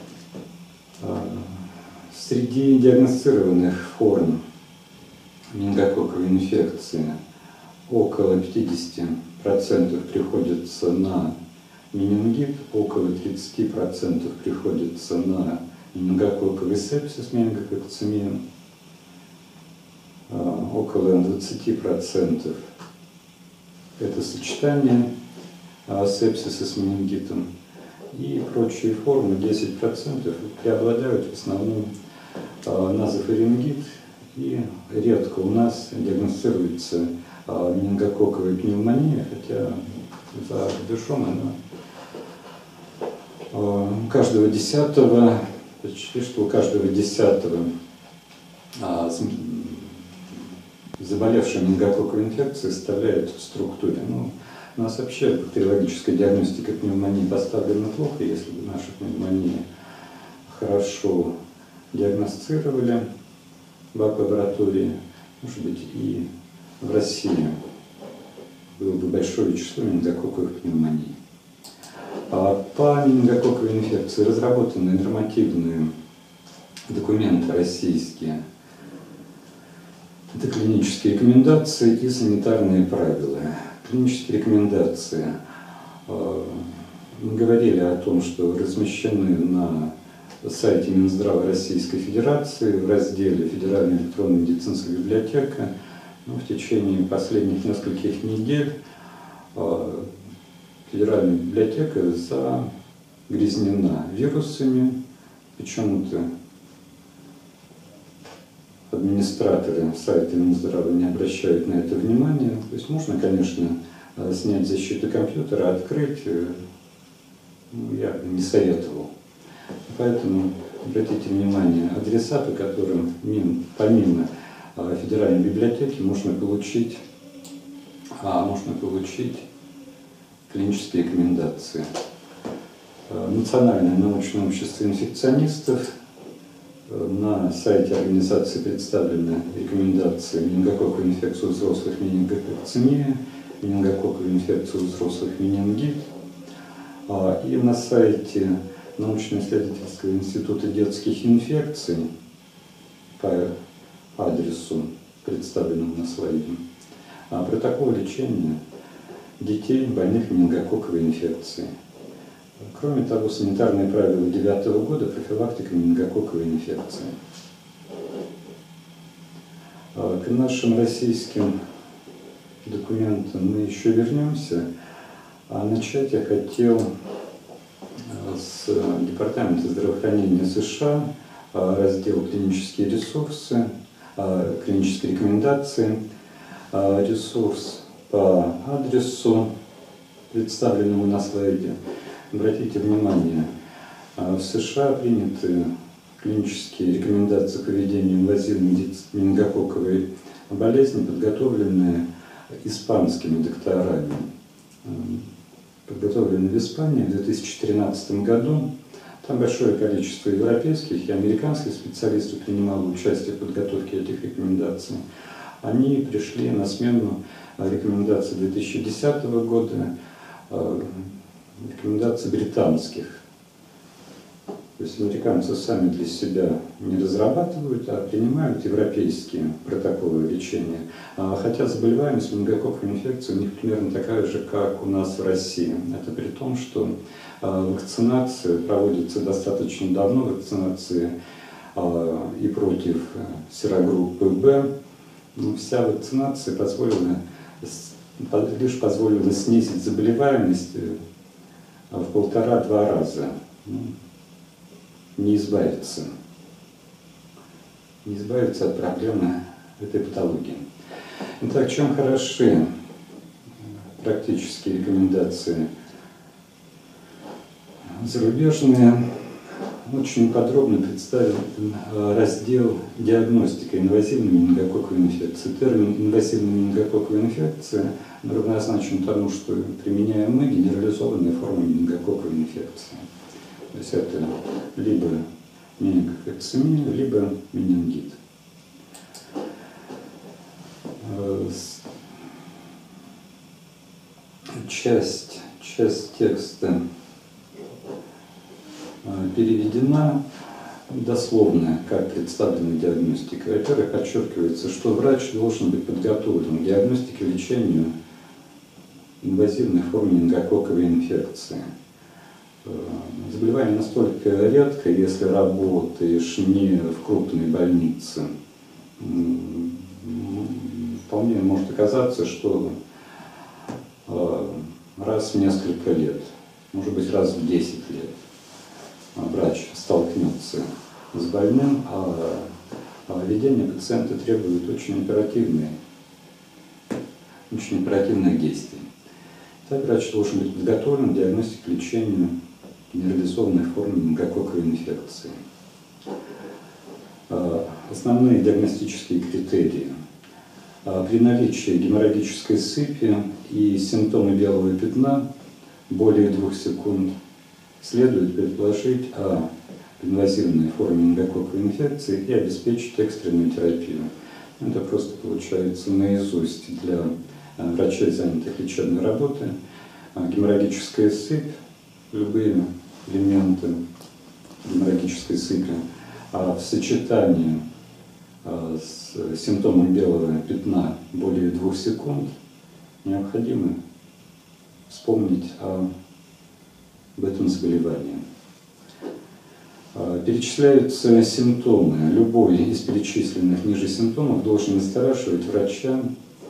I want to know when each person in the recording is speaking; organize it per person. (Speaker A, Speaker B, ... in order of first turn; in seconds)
Speaker A: 1.0-4.4, 5.5-7.2, 7.9-11.3, 11.9-18.4, 20.3-22.7, 24.0-25.1, 25.9-27.5, 28.1-31.9, 32.6-41.6, 43.5-47.7, 48.8-50.0, 51.0-59.6, 60.5-61.3, 61.9-63.1, 63.9-66.3, 66.8-67.6, 68.8-71.2, 72.3-75.9, 76.9-78.4, 80.3-85.4, 86.1-95.7, 96.2-98.7, 99.5-100.2, 100.9-102.7, 103.3-105.0, 105.6-106.3, 108.9-116.6, 117.7-119.1, 119.9-127.0, 128.2-129.5, 130.5-131.9, 133.1-135.9, 136.9-146.1, 147.1-152.1, 153.1-153.5, 154.2-156.6, 157.3-158.6, 159.4-161.7, 162.6-167.1, 169.9-171.6, 172.6-174.7, 175.5-176.9, 178.1-186.0, 186.7-189.5, 190.3-191.8, 192.3-193.5, 194.2-202.1, 202.6-204.3, 204.8-205.3, 205.9-208.7, 209.2-215.0, 215.6-219.9, 220.5-223.2, 224.8-241.2, 241.8-244.7, 245.3-251.0, 251.9-253.9, 255.2-256.1, 258.0-260.7, 261.4-262.7, 264.0-265.7, 267.9-283.0, 283.7-285.2, 285.8-288.2, 291.0-291.8, 294.5-296.8, 299.0-300.2, 300.9-307.9, 309.2-311.7, 312.6-318.3, 319.0-322.8, 324.1-328.1, 329.1-332.5, 333.1-335.8, 337.5-338.9, 339.7-342.3, 342.9-345.4, 347.3-350.0, 350.9-355.2, 355.9-357.1, 357.8-369.5, 370.1-371.5, 372.1-373.8, 374.6-375.8, 376.3-377.6, 378.4-382.3, 383.0-383.8, 384.9-385.9, 387.2-388.2, 389.9-396.1